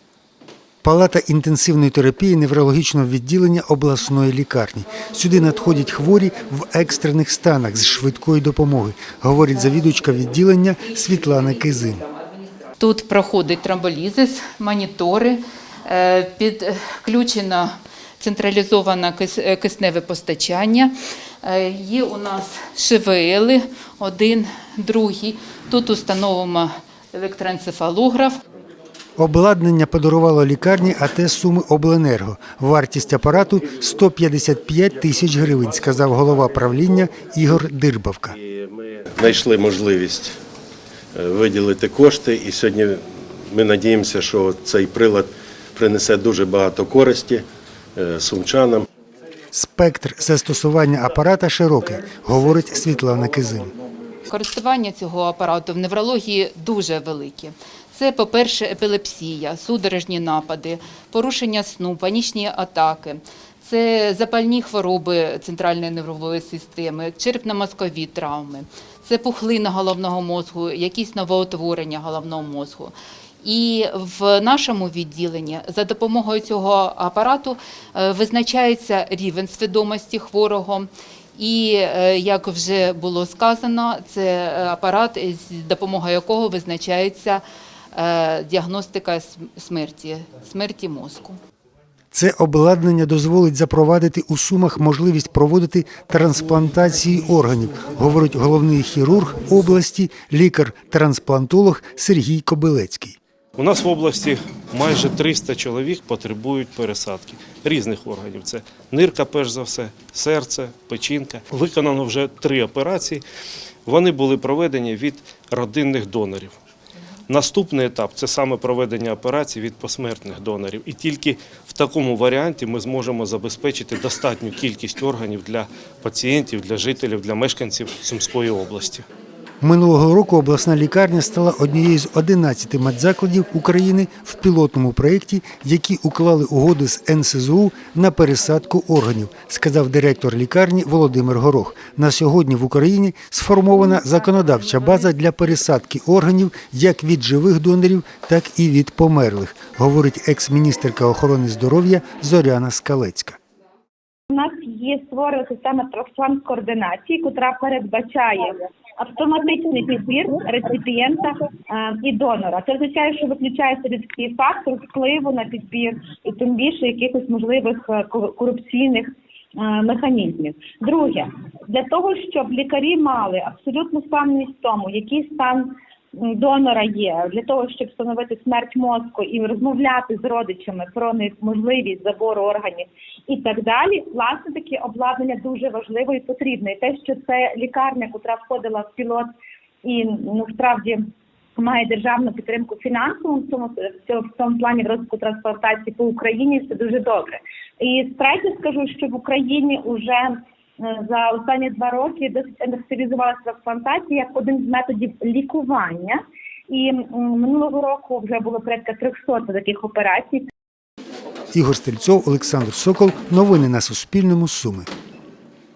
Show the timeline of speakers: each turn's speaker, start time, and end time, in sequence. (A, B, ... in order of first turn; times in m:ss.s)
0:00.8-0:12.0 A
0:12.8-0:28.4 B
0:29.2-0:38.3 A
0:38.4-0:40.3 C
0:41.1-0:47.4 C
0:48.0-0:48.8 C
0:49.5-0:53.7 A
0:54.3-1:31.4 B
1:32.1-1:43.2 A
1:43.6-1:53.2 D
1:53.8-1:56.6 D
1:57.3-2:09.0 D
2:09.6-2:33.4 A
2:34.3-3:09.3 E
3:09.8-3:11.0 E
3:11.6-3:30.5 E
3:31.5-3:34.9 A